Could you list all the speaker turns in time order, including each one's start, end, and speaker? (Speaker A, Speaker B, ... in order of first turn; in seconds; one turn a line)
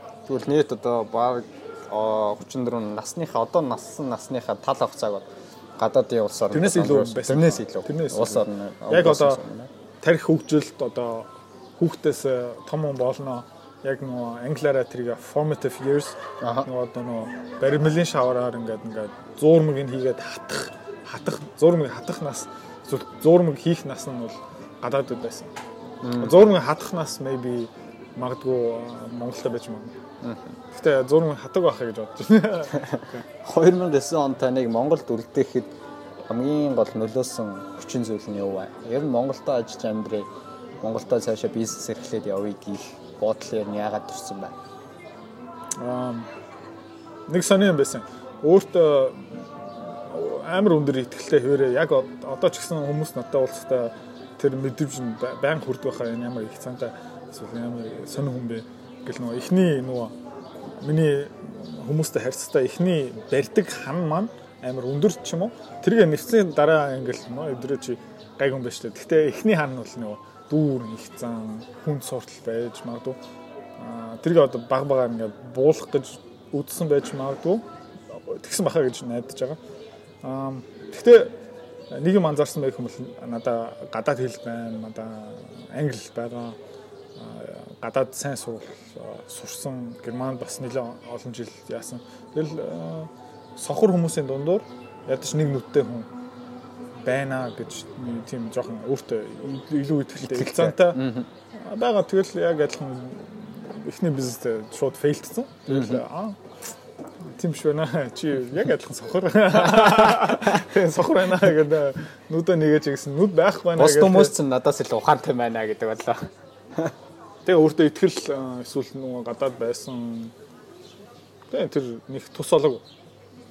Speaker A: 0.2-9.7
Speaker B: 6.5-9.4
Speaker B: 10.0-11.3
Speaker B: 11.8-25.5
Speaker A: 16.4-16.7
Speaker A: 26.0-26.4
Speaker B: 26.2-29.9
Speaker A: 30.2-30.6
Speaker B: 30.7-33.2
Speaker A: 32.8-35.7
Speaker A: 36.2-40.3
Speaker A: 40.8-44.6
Speaker B: 45.8-46.3
Speaker B: 47.3-60.1
Speaker B: 60.8-73.2
Speaker B: 73.8-79.6
Speaker B: 80.2-81.4
Speaker B: 81.9-86.6
Speaker B: 87.2-96.1
Speaker B: 97.0-106.4
Speaker A: 100.2-101.3
Speaker A: 105.7-106.0
Speaker B: 107.3-114.3
Speaker A: 109.6-110.8
Speaker A: 113.8-116.9
Speaker B: 117.5-120.3
Speaker B: 121.5-122.8